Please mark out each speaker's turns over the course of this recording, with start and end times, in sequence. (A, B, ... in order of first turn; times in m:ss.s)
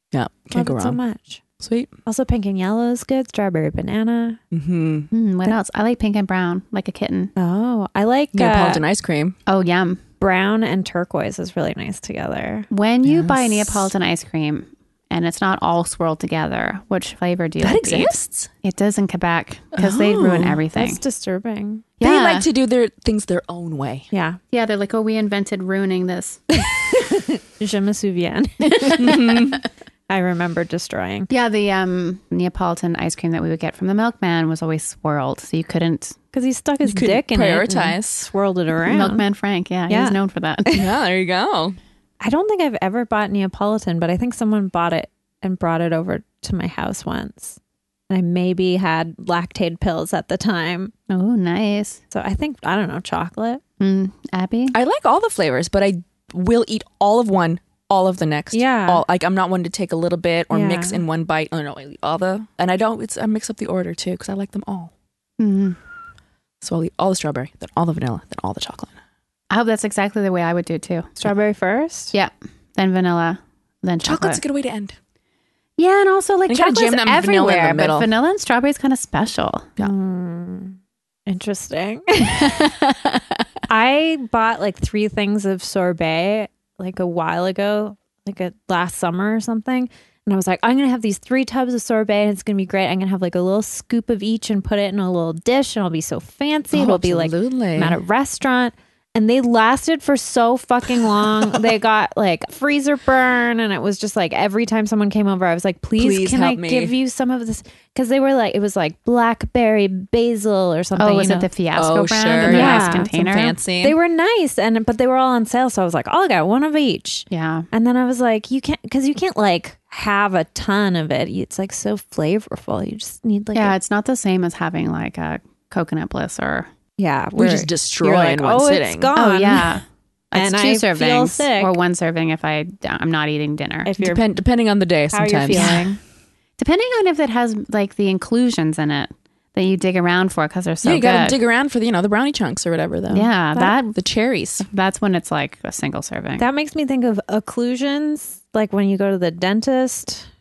0:00.1-0:01.0 A
0:00.5-0:01.4 B
0:01.6-0:01.9 A
0:02.1-0:04.4 B
0:04.5-0:05.1 A
0:05.1-0:07.3 C
0:07.4-0:08.8 B
0:08.3-0:09.4 A
0:09.5-0:10.0 C
0:10.2-0:13.8 B
0:12.7-0:21.0 C
0:17.6-0:18.5 A
0:19.8-0:20.6 A
0:20.7-0:21.9 B
0:22.0-0:22.5 C
0:22.0-0:24.1 A
0:24.1-0:24.4 B
0:24.5-0:26.4 C
0:26.6-0:29.6 B
0:28.7-0:29.4 C
0:28.9-0:29.6 A
0:30.1-0:31.3 B
0:31.3-0:36.2 C
0:36.3-0:39.2 B
0:36.8-0:38.3 A
0:38.9-0:40.7 C
0:39.9-0:40.9 B
0:40.7-0:41.8 A
0:42.2-0:47.6 B
0:48.1-0:50.9 B
0:51.1-0:52.0 C
0:52.1-0:53.6 B
0:53.8-0:54.8 C
0:54.7-1:04.9 A
0:58.5-0:59.0 B
1:00.5-1:01.0 B
1:05.4-1:05.8 C
1:06.6-1:08.9 A
1:09.5-1:11.1 C
1:11.2-1:12.1 B
1:12.1-1:14.4 C
1:14.0-1:15.0 A
1:15.8-1:19.8 C
1:16.5-1:18.1 A
1:19.8-1:22.7 B
1:22.4-1:23.2 C
1:23.7-1:51.5 B
1:36.7-1:38.0 A
1:46.0-1:46.9 A
1:51.0-1:53.6 C
1:51.8-1:54.0 A
1:52.4-1:53.1 B
1:53.8-2:03.8 B
1:57.3-1:57.7 C
2:03.5-2:06.7 C
2:07.0-2:09.8 B
2:07.4-2:09.1 A
2:09.2-2:13.9 C
2:10.4-2:11.7 B
2:13.8-2:14.2 B
2:14.0-2:15.8 A
2:15.1-2:16.0 B
2:15.5-2:16.0 C
2:16.6-2:21.4 C
2:20.8-2:24.6 A
2:23.1-2:24.0 C
2:24.6-2:26.4 C
2:26.4-2:30.3 B